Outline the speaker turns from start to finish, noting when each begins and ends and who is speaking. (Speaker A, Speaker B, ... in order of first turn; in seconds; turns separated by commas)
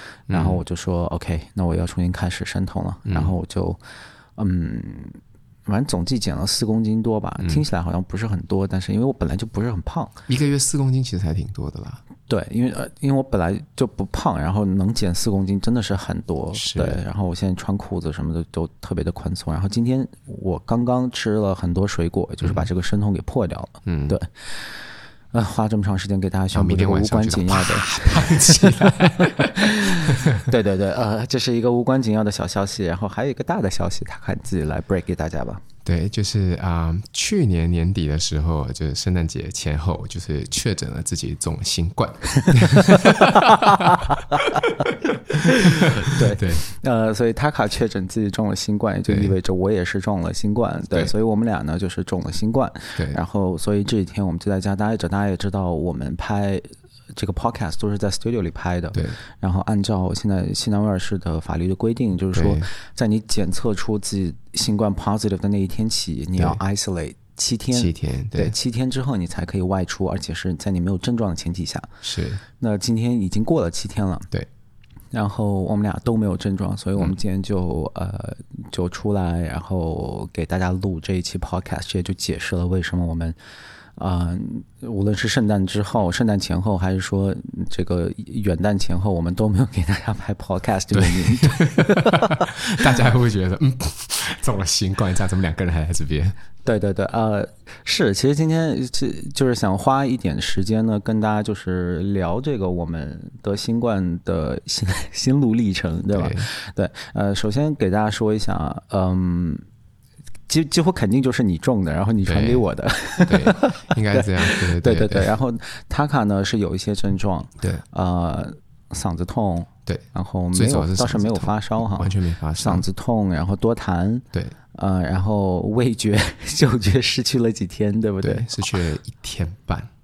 Speaker A: 0.3-3.8, Speaker B: 0.3-0.6, Speaker B: 3.1-3.4, Speaker A: 4.4-10.2, Speaker B: 10.3-12.0, Speaker A: 12.3-35.6, Speaker B: 16.5-17.0, Speaker B: 23.9-24.2, Speaker B: 26.5-30.4, Speaker B: 35.8-46.6, Speaker A: 42.5-71.9, Speaker B: 62.3-62.6, Speaker B: 67.7-68.5, Speaker B: 72.0-72.4, Speaker A: 72.6-74.3, Speaker A: 75.1-83.3, Speaker A: 84.0-93.0, Speaker B: 90.9-96.3, Speaker A: 96.7-109.7, Speaker B: 106.1-106.5, Speaker A: 110.5-128.7, Speaker B: 112.2-112.6, Speaker B: 113.2-115.3, Speaker B: 119.9-122.8, Speaker B: 128.2-129.9